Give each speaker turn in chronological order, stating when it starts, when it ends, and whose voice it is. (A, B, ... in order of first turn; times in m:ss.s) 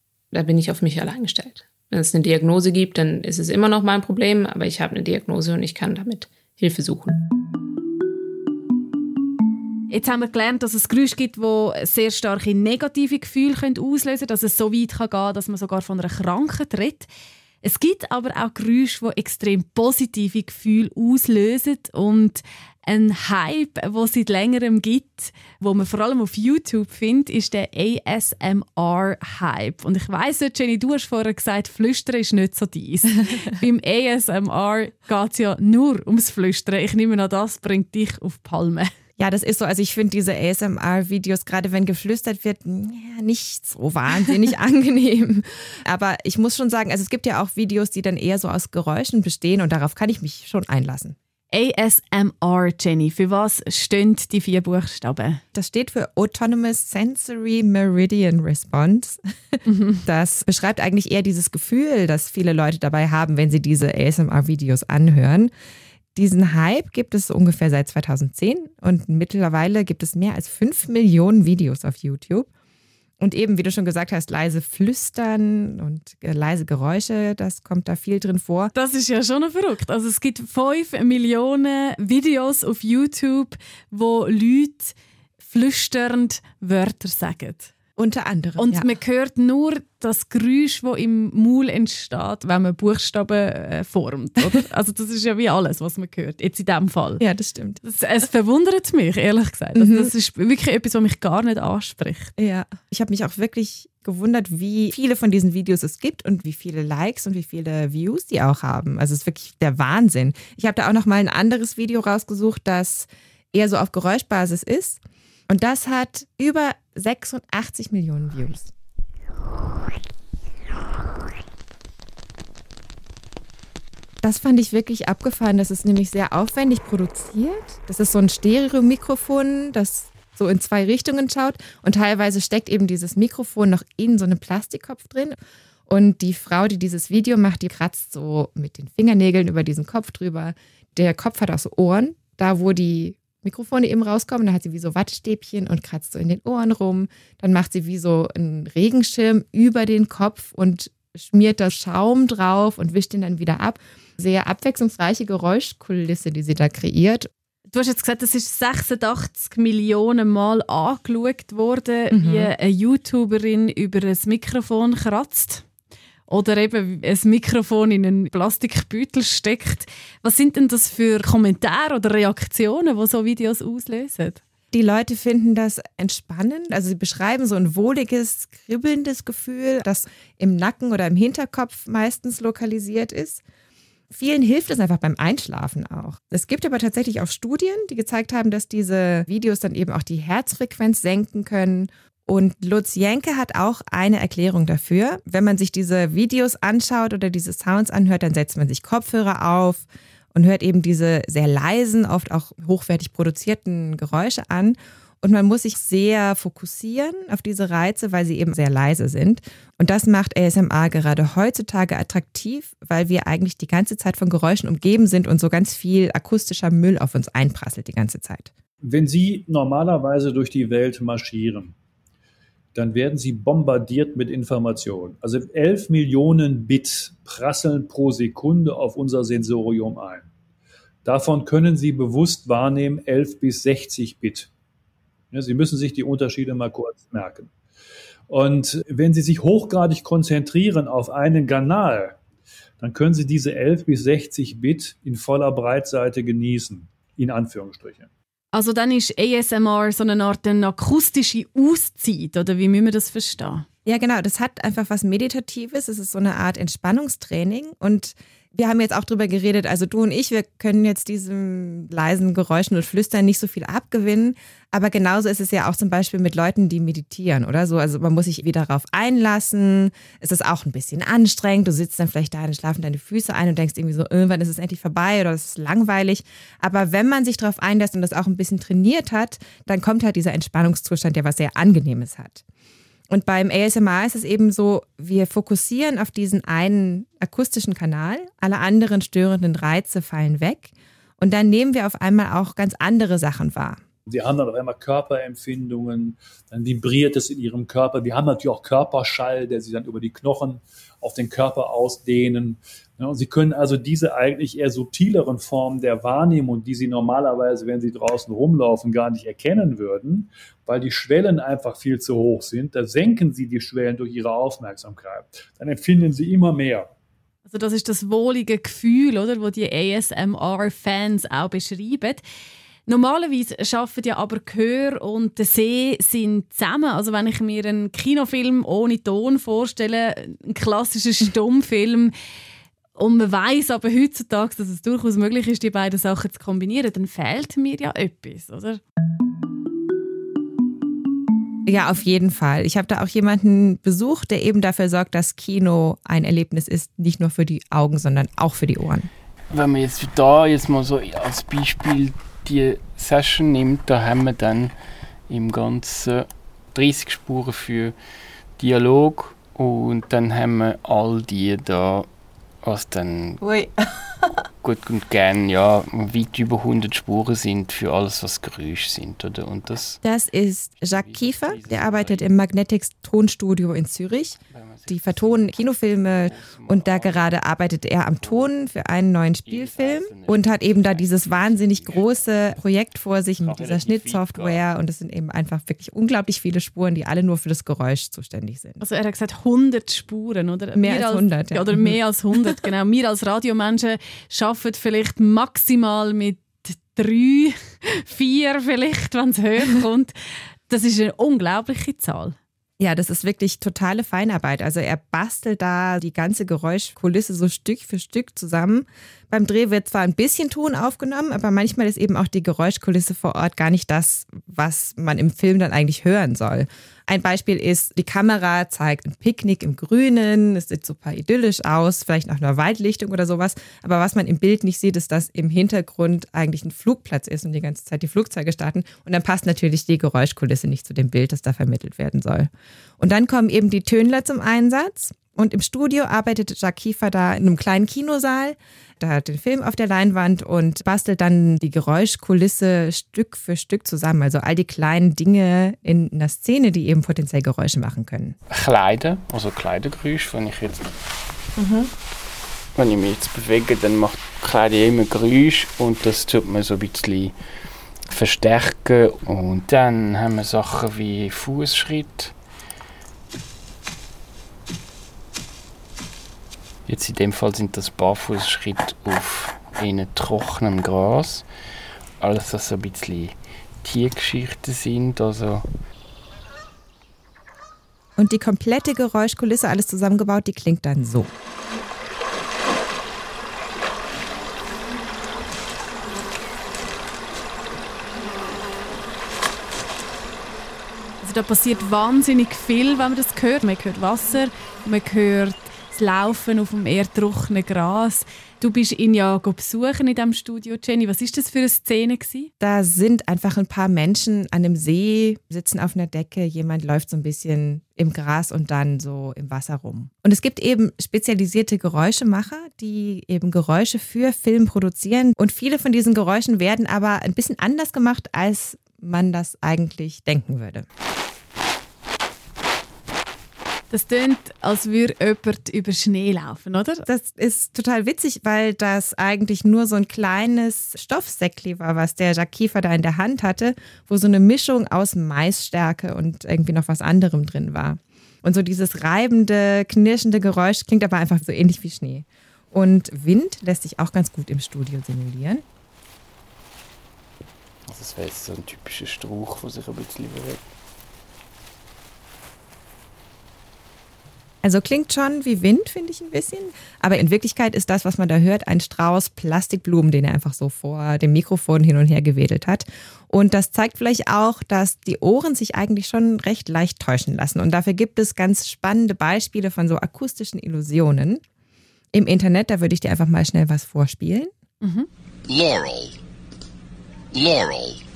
0:00.3-0:07.2 A
0:09.9-0:17.1 B
0:17.6-0:38.9 B
0:39.2-0:51.2 C
0:51.5-0:55.4 B
0:55.5-1:05.5 C
0:59.7-1:00.0 B
1:06.2-1:12.5 C
1:13.2-1:18.7 C
1:18.8-1:27.7 B
1:28.0-1:28.9 C
1:28.6-1:37.2 B
1:37.2-1:37.8 C
1:37.8-1:42.3 B
1:39.8-1:40.1 C
1:42.4-1:58.7 C
2:04.2-2:15.4 C
2:15.9-2:37.3 C
2:37.7-2:45.6 B
2:42.1-2:42.5 C
2:46.3-2:54.4 B
2:54.7-3:03.4 C
3:04.1-3:38.5 C
3:38.8-3:41.8 D
3:42.8-3:50.3 D
3:51.0-3:54.5 D
3:55.3-3:57.5 D
3:58.3-4:02.2 D
4:02.8-4:08.1 D
4:08.5-4:13.6 B
4:13.9-4:42.4 C
4:43.1-4:53.8 C
4:54.1-5:16.9 D
5:17.5-5:22.2 B
5:22.9-5:32.1 B
5:33.0-5:38.8 B
5:41.7-5:49.1 C
5:49.5-5:54.7 E
5:55.3-5:58.0 E
5:58.6-6:02.1 E
6:02.6-6:03.5 E
6:04.6-6:10.0 E
6:10.0-6:28.8 C
6:10.8-6:12.3 E
6:14.4-6:17.4 E
6:18.2-6:18.5 E
6:19.4-6:22.4 E
6:23.4-6:24.6 E
6:28.8-6:40.1 B
6:30.8-6:32.0 C
6:40.7-6:42.4 B
6:42.8-7:12.5 C
7:13.0-7:28.4 C
7:28.5-7:30.9 E
7:31.6-7:31.9 C
7:32.8-7:37.4 E
7:38.1-7:42.3 E
7:46.9-7:51.5 E
7:52.2-7:55.6 E
7:58.2-8:01.3 C
8:11.2-8:22.5 B
8:22.6-8:40.9 C
8:43.9-8:47.1 B
8:47.1-9:05.6 C
9:07.9-9:10.6 E
9:14.6-9:31.4 C
9:32.1-9:34.5 C
9:34.8-9:35.1 B